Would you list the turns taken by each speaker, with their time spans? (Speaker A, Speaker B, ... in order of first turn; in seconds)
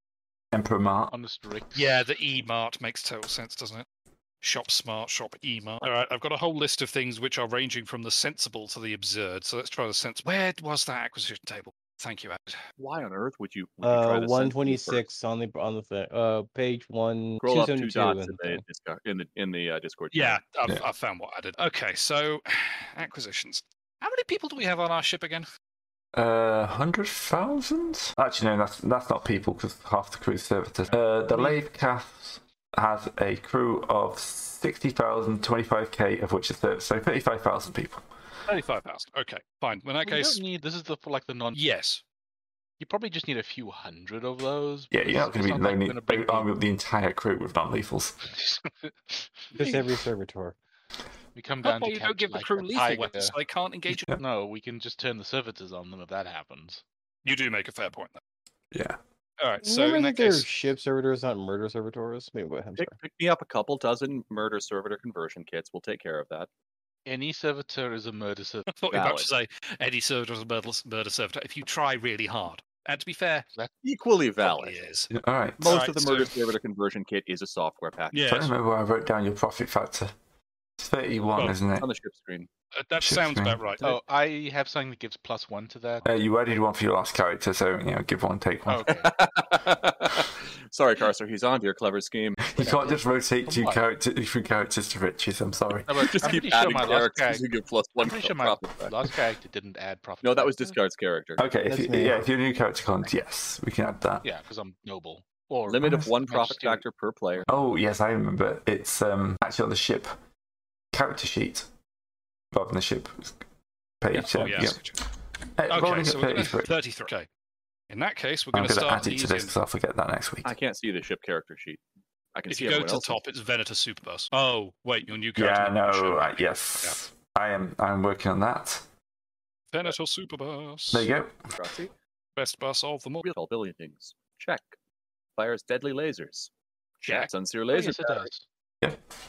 Speaker A: 0.5-1.1, 26.1-38.0, 44.9-48.2, 58.7-59.0, 75.1-75.7, 78.3-80.1, 80.8-81.9, 83.0-83.6, 86.0-88.9, 92.4-95.9, 101.4-104.3, 107.5-110.1, 110.9-111.7, 112.5-113.4, 114.0-114.8, 115.5-116.7, 118.5-120.5, 125.4-128.8, 130.9-131.5
Speaker B: 1.1-2.0, 40.0-41.6, 42.8-46.5, 48.2-49.9, 51.3-53.3, 54.1-56.8, 67.0-68.7, 83.8-86.1, 88.7-89.1, 92.6-93.9, 95.9-97.5, 98.0-100.8, 104.2-106.8, 137.7-138.4
Speaker C: 1.7-3.8, 4.4-12.6, 20.1-25.5, 38.5-40.4, 41.5-42.0, 51.6-54.1, 57.2-58.2, 59.4-60.5, 68.7-73.5, 74.4-75.1, 75.6-76.4, 78.1-78.5, 82.7-84.0, 114.1-115.0, 115.7-117.3, 117.9-119.5, 122.5-127.0, 129.7-131.1, 132.4-133.3, 137.1-137.3
Speaker D: 12.8-15.1, 17.4-20.4, 62.8-66.5, 68.9-69.3, 73.8-74.8, 75.6-78.2, 81.8-82.5, 89.1-92.6, 96.0-99.1, 100.2-101.4, 105.7-107.5, 120.4-121.8, 122.3-123.2, 131.6-131.9, 133.2-134.8, 135.4-136.5, 137.0-138.3
Speaker E: 13.8-18.6, 49.5-50.5, 59.6-63.0, 101.7-102.2